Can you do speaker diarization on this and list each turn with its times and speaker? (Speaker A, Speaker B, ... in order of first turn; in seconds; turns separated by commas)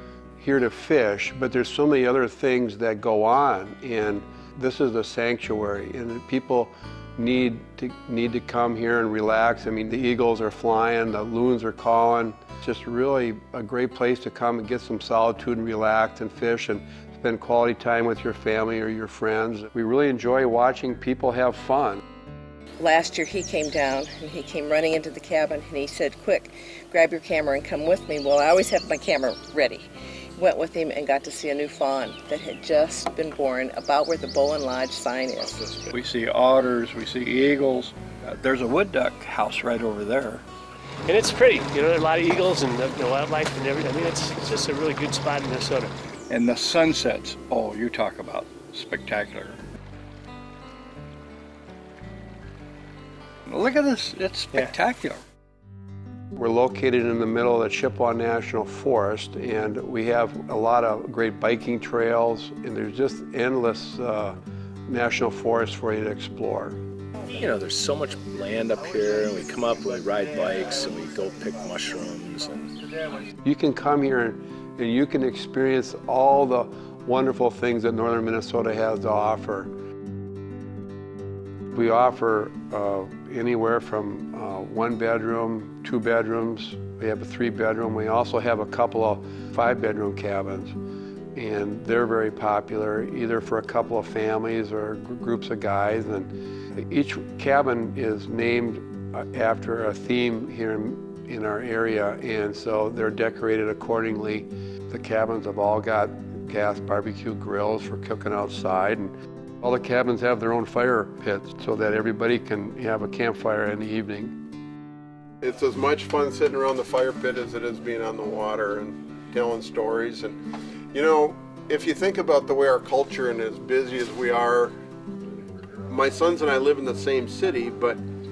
Speaker A: 0.4-22.0, Speaker B: 22.8-35.7, Speaker C: 35.9-40.4, Speaker D: 41.1-45.9, Speaker C: 46.3-49.6, Speaker C: 53.5-55.2, Speaker A: 56.4-66.8, Speaker E: 67.3-72.7, Speaker A: 73.4-79.7, Speaker A: 81.7-90.8, Speaker A: 91.3-114.3, Speaker F: 115.4-120.4, Speaker F: 120.9-124.7, Speaker F: 125.9-128.0